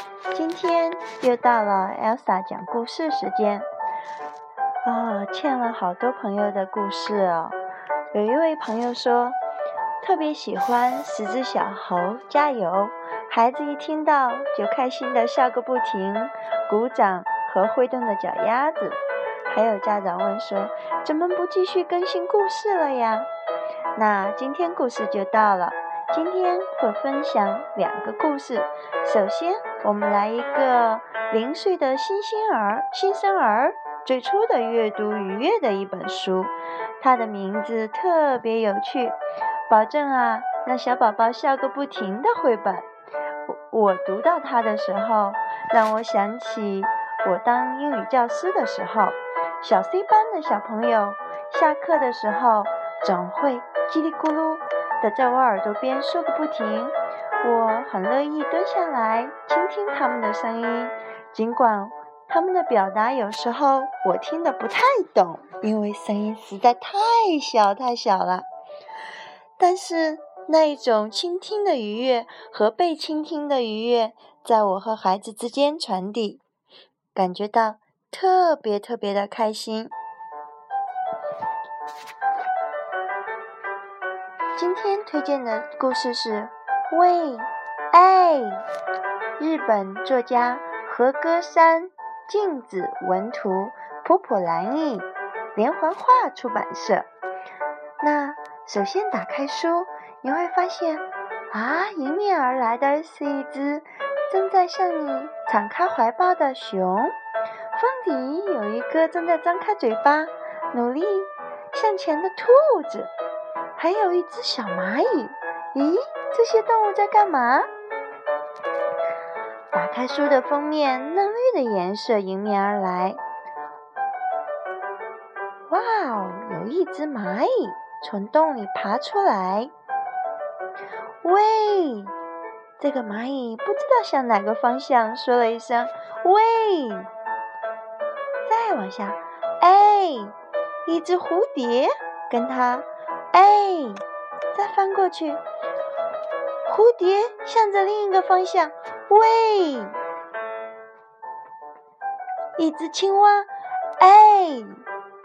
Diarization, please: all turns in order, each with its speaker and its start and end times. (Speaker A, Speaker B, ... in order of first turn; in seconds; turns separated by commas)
Speaker A: 0.3-3.7, Speaker A: 4.8-7.6, Speaker A: 8.1-9.4, Speaker A: 10.0-23.3, Speaker A: 24.0-39.2, Speaker A: 39.7-42.9, Speaker A: 43.5-68.5, Speaker A: 69.6-76.4, Speaker A: 77.2-79.9, Speaker A: 84.5-88.6, Speaker A: 89.4-97.1, Speaker A: 98.0-107.2, Speaker A: 107.7-113.1, Speaker A: 113.8-117.7, Speaker A: 119.7-123.2, Speaker A: 125.7-129.7, Speaker A: 131.2-132.1, Speaker A: 132.8-137.1, Speaker A: 138.5-140.3, Speaker A: 140.9-144.0, Speaker A: 144.5-145.4, Speaker A: 146.7-149.9, Speaker A: 152.6-154.8